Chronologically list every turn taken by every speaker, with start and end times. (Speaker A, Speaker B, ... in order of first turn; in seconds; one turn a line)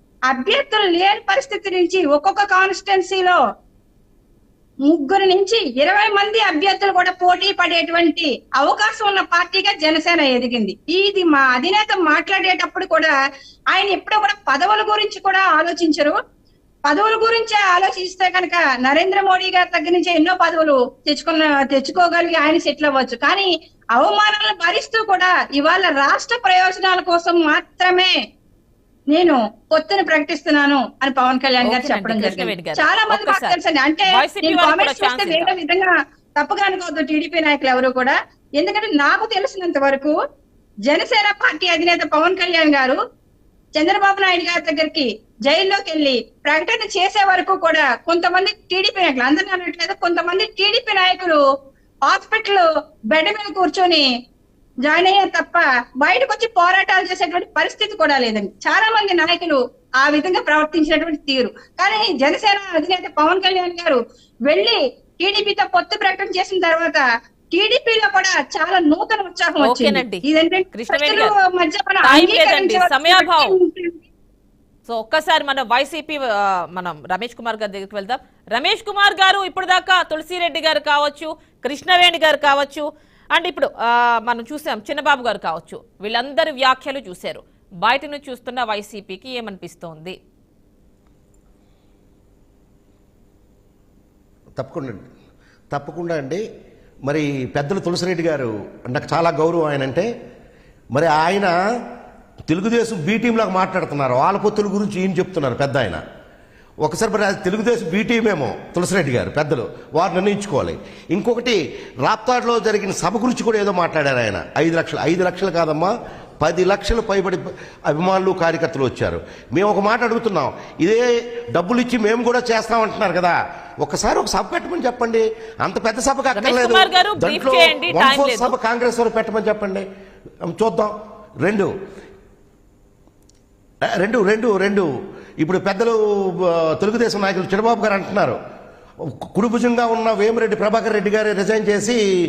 Speaker A: 0.3-3.4
Speaker A: 4.9-13.1
Speaker A: 13.7-16.2
Speaker A: 16.9-28.2
Speaker A: 29.1-40.1
Speaker B: 31.6-33.6
Speaker B: 34.1-35.5
Speaker A: 40.9-43.0
Speaker A: 43.8-51.4
Speaker A: 52.1-54.1
Speaker A: 54.9-74.0
Speaker B: 69.6-71.3
Speaker B: 72.0-73.5
Speaker B: 74.9-90.2
Speaker C: 94.6-95.1
Speaker C: 95.7-96.4
Speaker C: 97.1-100.1
Speaker C: 100.9-101.5
Speaker C: 102.5-106.0
Speaker C: 106.8-121.0
Speaker C: 121.5-129.9
Speaker B: 126.3-128.6
Speaker C: 130.5-131.7
Speaker C: 134.0-134.9
Speaker C: 135.4-138.4
Speaker C: 139.1-142.0